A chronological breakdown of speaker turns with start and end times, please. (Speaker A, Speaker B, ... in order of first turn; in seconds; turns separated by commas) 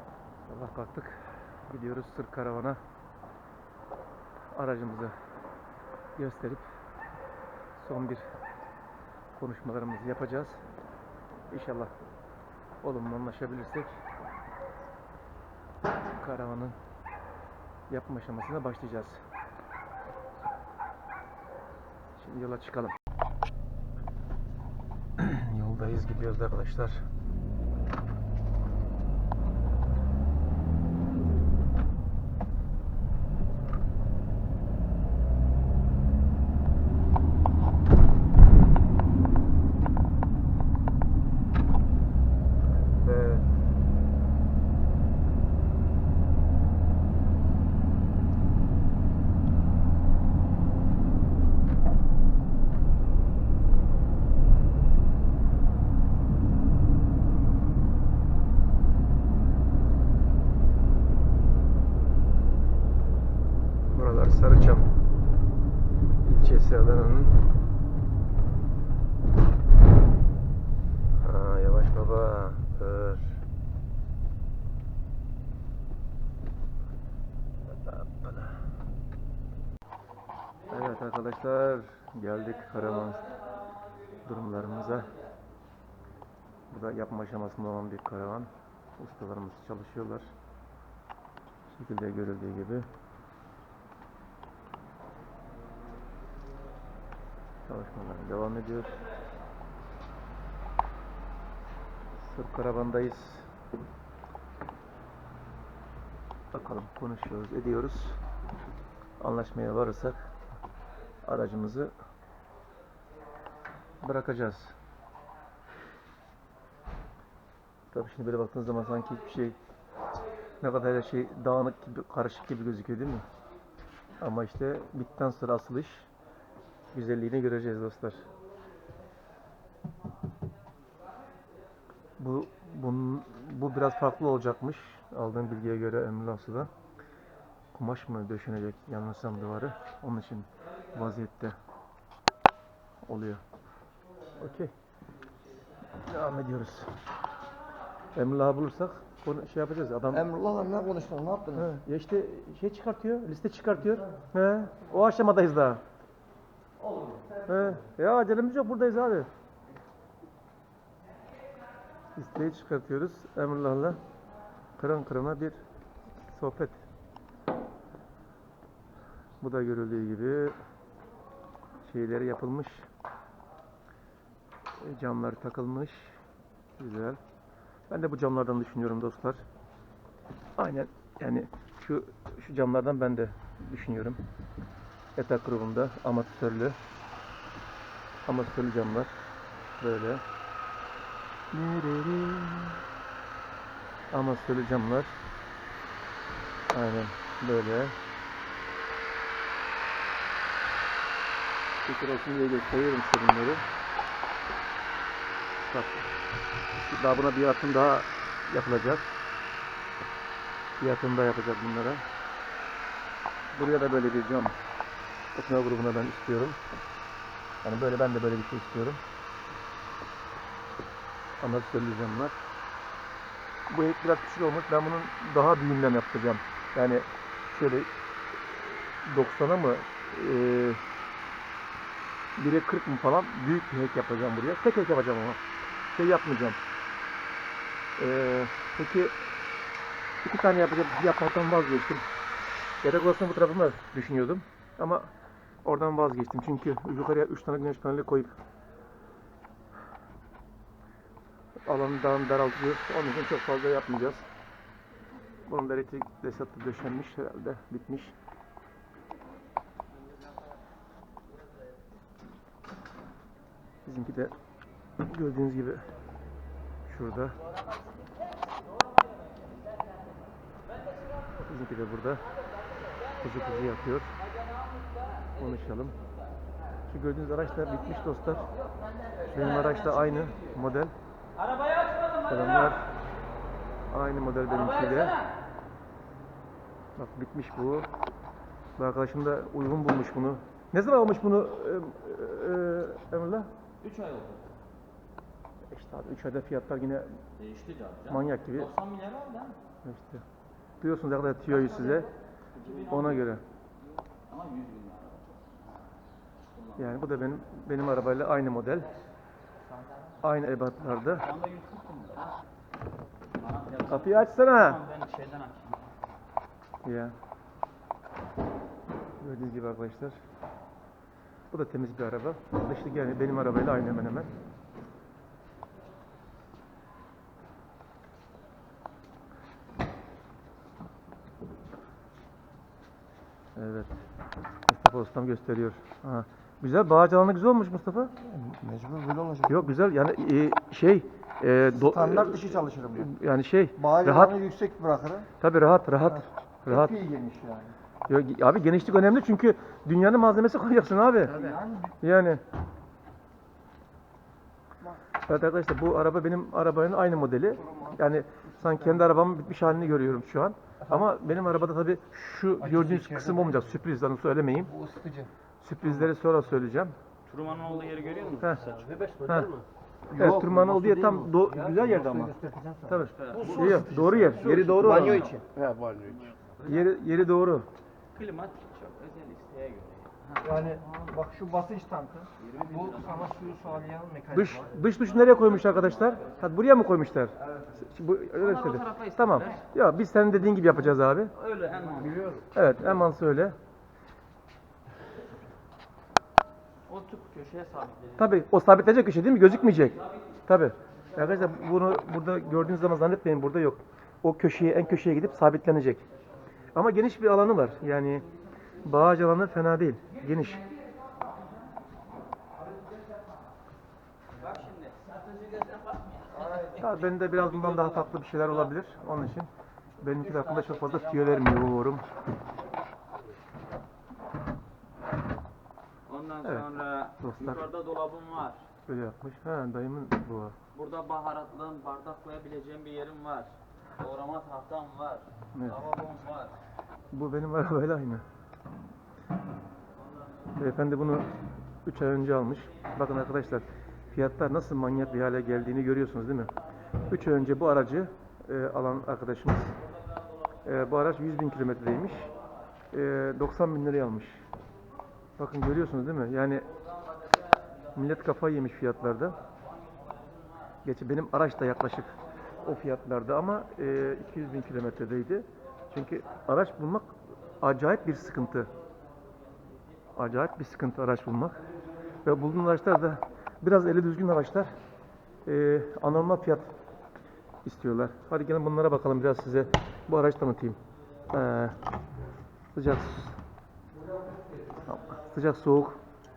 Speaker A: 0.5-2.8, Speaker A: 4.5-5.1, Speaker A: 6.2-6.7, Speaker A: 7.8-8.2, Speaker A: 9.4-10.6, Speaker A: 11.5-11.9, Speaker A: 12.8-13.9, Speaker A: 16.2-16.8, Speaker A: 17.9-19.2, Speaker A: 22.2-22.9, Speaker A: 25.2-27.0, Speaker A: 43.0-43.5, Speaker A: 63.9-64.9, Speaker A: 66.2-67.3, Speaker A: 71.2-73.4, Speaker A: 77.7-78.6, Speaker A: 80.7-83.3, Speaker A: 84.2-85.1, Speaker A: 86.7-90.3, Speaker A: 91.7-92.9, Speaker A: 97.7-99.0, Speaker A: 102.2-103.5, Speaker A: 106.5-108.2, Speaker A: 109.2-110.2, Speaker A: 111.2-111.9, Speaker A: 114.0-114.8, Speaker A: 117.9-119.6, Speaker A: 120.6-123.2, Speaker A: 124.2-126.1, Speaker A: 126.9-128.3, Speaker A: 132.2-136.7, Speaker A: 137.7-141.6, Speaker A: 143.0-143.4, Speaker A: 144.4-144.7, Speaker A: 146.1-146.9, Speaker A: 148.2-150.3, Speaker B: 150.1-151.7, Speaker A: 151.6-155.8, Speaker B: 156.8-157.5, Speaker A: 157.5-159.3, Speaker A: 162.2-164.0, Speaker A: 164.8-165.6, Speaker A: 166.3-166.8, Speaker A: 169.4-170.6, Speaker A: 171.8-172.9, Speaker A: 174.8-176.2, Speaker A: 176.8-177.2, Speaker A: 177.9-179.4, Speaker A: 180.6-184.2, Speaker A: 185.2-186.8, Speaker A: 188.3-189.1, Speaker A: 189.8-190.2, Speaker A: 191.5-192.8, Speaker A: 194.1-195.2, Speaker A: 196.7-198.0, Speaker A: 201.8-203.6, Speaker A: 205.6-206.1, Speaker A: 206.8-209.1, Speaker A: 210.8-212.0, Speaker A: 213.5-214.6, Speaker A: 215.3-216.6, Speaker A: 217.6-219.0, Speaker A: 221.4-222.3, Speaker A: 223.7-227.9, Speaker A: 228.4-230.8, Speaker A: 232.4-235.4, Speaker A: 235.9-236.6, Speaker A: 238.0-239.2, Speaker A: 240.2-242.0, Speaker A: 242.8-245.1, Speaker A: 245.6-248.3, Speaker A: 251.7-254.3, Speaker A: 255.5-258.1, Speaker A: 263.9-264.4, Speaker A: 265.0-265.9, Speaker A: 266.9-267.4, Speaker A: 271.4-272.3, Speaker A: 273.2-274.1, Speaker A: 275.4-276.0, Speaker A: 276.9-278.5, Speaker A: 279.2-280.9, Speaker C: 281.4-282.7, Speaker A: 282.2-282.9, Speaker A: 283.9-285.2, Speaker C: 284.5-285.3, Speaker A: 287.0-287.9, Speaker A: 288.8-293.5, Speaker C: 293.8-294.5, Speaker A: 295.7-297.1, Speaker C: 297.4-299.6, Speaker A: 298.1-298.7, Speaker A: 299.9-300.2, Speaker A: 300.8-302.1, Speaker C: 302.5-303.3, Speaker A: 302.9-303.4, Speaker C: 304.1-305.7, Speaker C: 306.5-307.0, Speaker A: 306.8-308.9, Speaker A: 310.2-311.3, Speaker C: 311.2-312.3, Speaker C: 313.3-315.9, Speaker A: 313.9-314.8, Speaker A: 316.8-317.1, Speaker A: 319.2-320.2, Speaker A: 321.5-324.3, Speaker A: 333.6-334.0, Speaker A: 334.7-338.3, Speaker B: 338.3-339.7, Speaker A: 339.5-344.4, Speaker B: 341.7-343.1, Speaker B: 343.8-345.3, Speaker A: 345.4-347.0, Speaker B: 346.2-347.8, Speaker A: 348.1-351.4, Speaker B: 351.2-351.9, Speaker A: 352.0-352.4, Speaker A: 355.2-364.7, Speaker B: 362.6-363.8, Speaker B: 364.6-365.3, Speaker A: 365.6-366.9, Speaker C: 367.3-369.0, Speaker A: 369.2-369.6, Speaker B: 370.1-376.0, Speaker A: 370.1-372.3, Speaker A: 372.9-375.3, Speaker C: 373.1-375.4, Speaker C: 376.1-376.7, Speaker A: 376.6-377.7, Speaker C: 378.1-380.6, Speaker B: 380.4-384.8, Speaker C: 382.4-383.8, Speaker A: 384.3-391.3, Speaker C: 385.0-386.4, Speaker C: 388.4-389.6, Speaker C: 391.3-392.4, Speaker A: 392.5-393.6, Speaker C: 396.9-398.3, Speaker A: 398.2-406.0, Speaker C: 399.9-400.2, Speaker A: 406.7-408.3, Speaker A: 408.8-410.7, Speaker C: 414.4-415.2, Speaker C: 416.3-418.7, Speaker B: 416.3-416.8, Speaker A: 416.7-419.5, Speaker A: 420.0-422.1, Speaker C: 420.1-421.6, Speaker C: 426.1-428.7, Speaker A: 427.2-427.7, Speaker A: 428.9-430.6, Speaker C: 430.7-436.6, Speaker A: 435.6-435.8, Speaker A: 437.1-438.2, Speaker A: 440.6-441.3, Speaker A: 441.9-446.5, Speaker A: 447.1-449.8, Speaker A: 450.6-452.3, Speaker A: 452.9-454.4, Speaker A: 455.4-456.7, Speaker C: 456.7-457.9, Speaker A: 457.9-459.4, Speaker C: 459.4-460.8, Speaker A: 460.9-468.7, Speaker A: 470.1-471.6, Speaker A: 472.2-474.7, Speaker A: 475.4-476.7, Speaker A: 477.6-480.8, Speaker A: 481.3-481.8, Speaker A: 482.7-483.4, Speaker B: 484.3-484.8, Speaker A: 484.9-486.0